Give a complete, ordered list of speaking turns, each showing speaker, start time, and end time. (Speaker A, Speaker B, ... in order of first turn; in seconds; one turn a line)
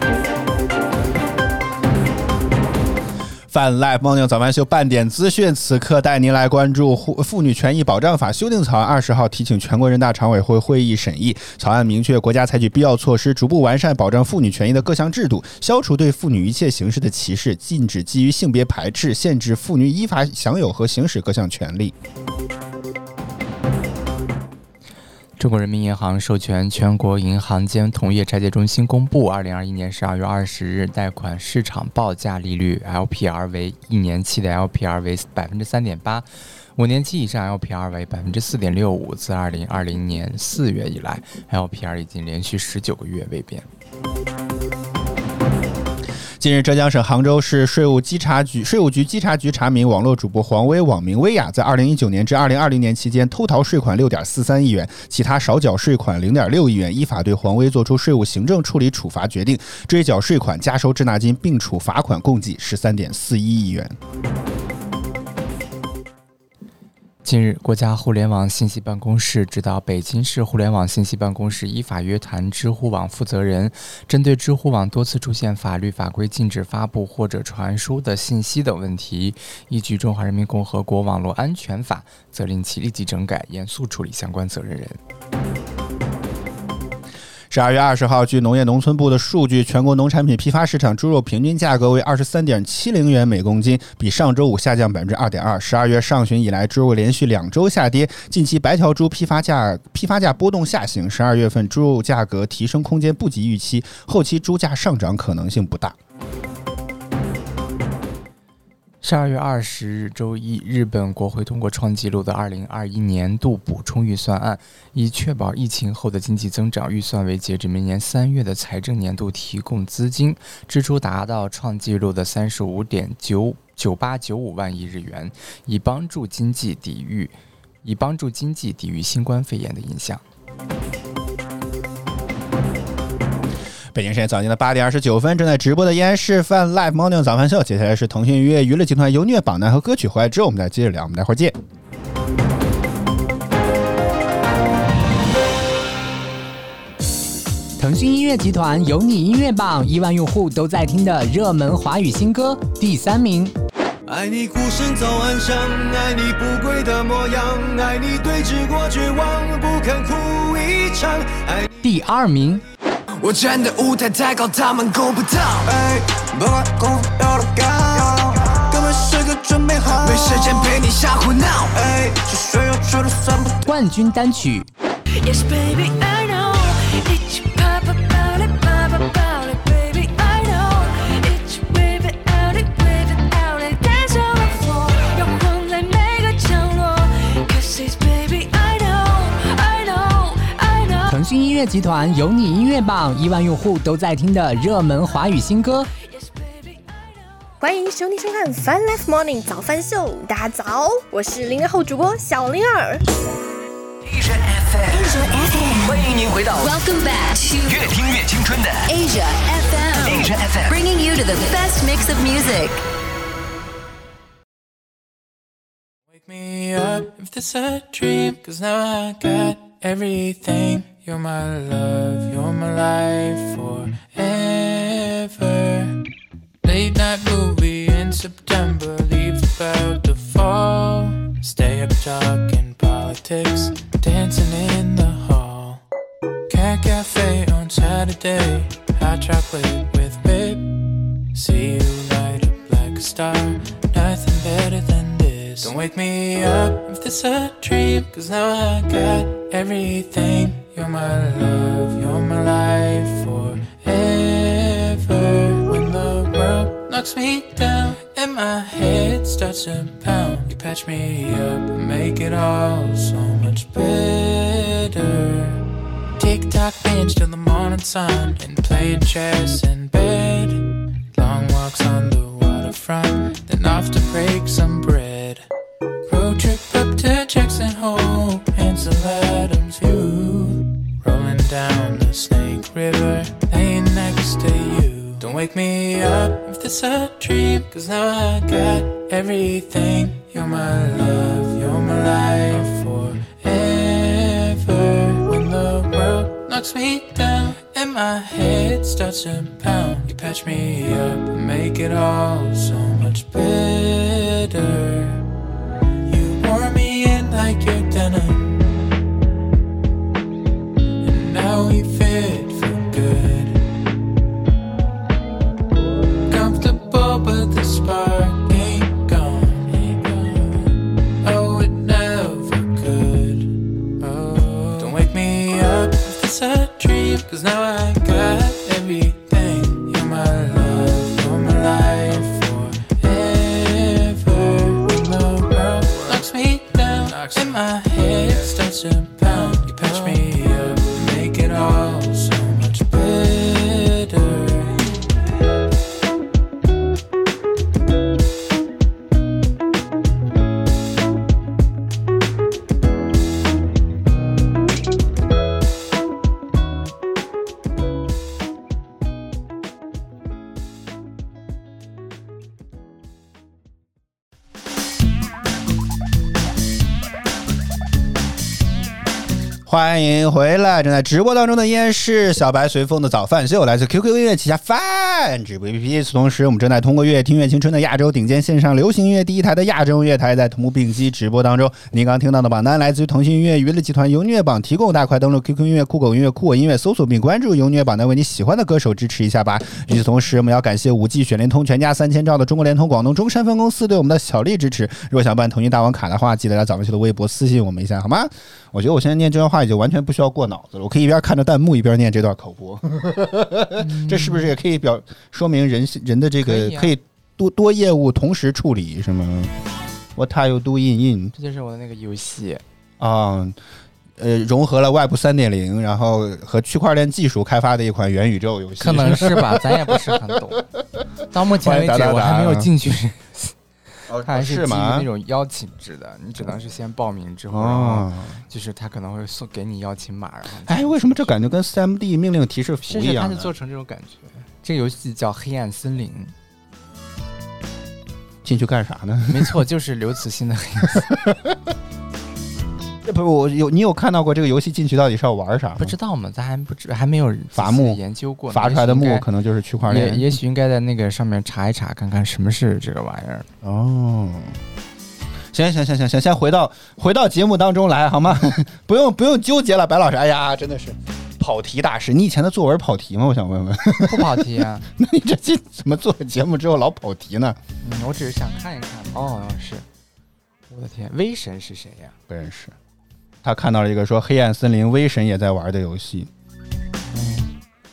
Speaker A: 3.5-21.9
Speaker B: 25.4-43.7
Speaker A: 46.4-64.0
Speaker B: 67.2-85.0
Speaker A: 87.5-106.0
Speaker B: 109.0-130.2
Speaker A: 133.9-141.6
Speaker C: 147.8-153.5
Speaker D: 154.1-161.7
Speaker C: 161.8-162.6
Speaker D: 163.2-173.6
Speaker E: 170.1-170.7
Speaker C: 173.7-174.7
Speaker E: 175.2-191.2
Speaker C: 191.1-195.9
Speaker E: 195.9-197.0
Speaker F: 197.6-203.0
Speaker G: 204.1-206.8
Speaker H: 204.9-207.9
Speaker G: 207.6-208.9
Speaker H: 208.9-212.8
Speaker G: 210.0-210.8
Speaker I: 216.1-226.1
Speaker I: 226.6-235.8
Speaker I: 236.5-265.6
Speaker I: 266.2-275.5
Speaker I: 276.1-305.2
Speaker I: 306.1-308.9
Speaker I: 311.0-313.8
Speaker I: 316.3-344.9
Speaker A: 369.6-409.5
Speaker B: 403.8-404.5
Speaker B: 406.4-406.9
Speaker A: 410.2-411.3
Speaker B: 411.4-412.6
Speaker A: 413.0-413.6
Speaker A: 414.2-420.2
Speaker B: 418.8-420.7
Speaker B: 421.3-423.5
Speaker A: 421.6-422.7
Speaker A: 424.1-425.1
Speaker B: 424.2-431.3
Speaker A: 427.5-428.4
Speaker A: 430.7-433.5
Speaker B: 432.9-436.3
Speaker A: 438.4-439.6
Speaker B: 439.3-441.1
Speaker A: 441.0-441.3
Speaker A: 443.0-445.9
Speaker B: 445.8-449.3
Speaker A: 447.5-450.4
Speaker B: 449.9-453.5
Speaker A: 453.6-454.6
Speaker A: 455.5-467.6
Speaker B: 464.0-464.9
Speaker B: 467.8-469.9
Speaker B: 470.7-472.1
Speaker A: 472.3-472.8
Speaker A: 473.4-476.3
Speaker B: 477.1-477.5